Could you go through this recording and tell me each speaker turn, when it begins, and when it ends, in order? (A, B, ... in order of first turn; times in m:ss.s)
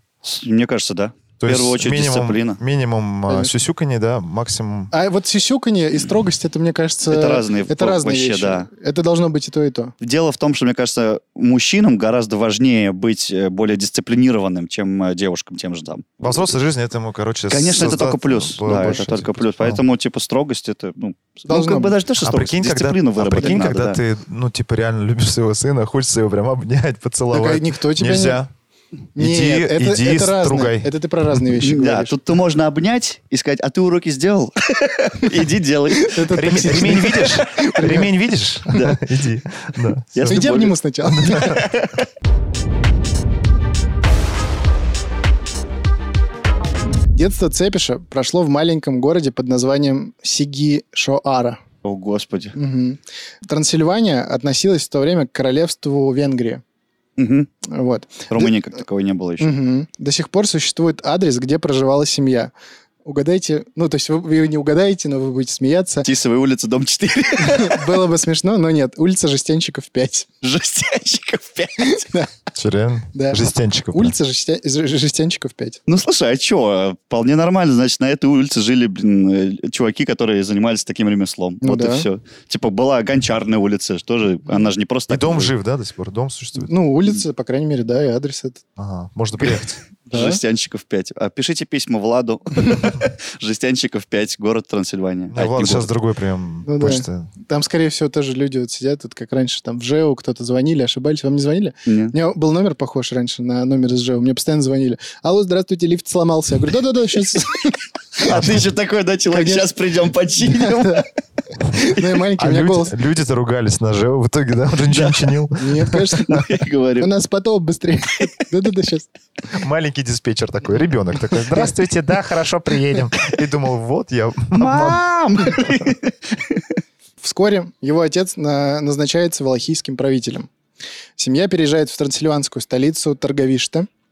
0:00.2-0:02.6 A
0:01.4-0:04.9 B
0:04.9-0:09.9 C
0:07.1-0:08.7 A
0:10.0-0:16.5 A
0:16.2-0:19.8 B
0:17.5-0:24.0 A
0:18.7-0:19.0 C
0:21.5-0:22.0 C
0:22.2-0:28.5 B
0:27.3-0:28.4 C
0:29.2-0:32.1 C
0:29.2-0:30.9 B
0:31.6-0:37.3 A
0:35.9-0:38.1 C
0:36.3-0:40.5 B
0:38.7-0:39.0 A
0:40.1-0:42.0 A
0:40.3-0:41.6 C
0:41.0-0:41.6 B
0:47.1-0:51.6 C
0:51.8-0:52.6 A
0:52.6-0:56.6 C
0:57.2-0:57.5 A
0:57.6-0:58.5 C
0:58.3-0:59.5 A
0:59.4-1:02.5 C
1:03.0-1:06.1 C
1:06.0-1:07.9 A
1:07.4-1:10.3 C
1:10.4-1:12.1 A
1:11.8-1:12.3 C
1:12.5-1:14.1 B
1:13.1-1:15.8 C
1:15.9-1:25.5 A
1:21.6-1:22.0 C
1:25.1-1:26.7 B
1:26.6-1:28.6 C
1:28.8-1:29.8 B
1:30.1-1:30.4 C
1:30.1-1:35.9 A
1:32.6-1:33.0 C
1:35.3-1:37.3 B
1:36.6-1:48.4 C
1:41.8-1:42.1 A
1:48.2-1:51.0 A
1:49.3-1:49.7 C
1:50.4-1:51.1 C
1:51.6-1:53.0 C
1:52.4-1:56.4 B
1:54.9-1:55.4 A
1:55.5-1:56.5 C
1:56.2-1:57.1 A
1:57.0-1:59.1 C
1:59.5-2:05.0 B
2:01.3-2:01.7 C
2:04.5-2:06.7 A
2:07.2-2:10.5 C
2:11.2-2:13.9 C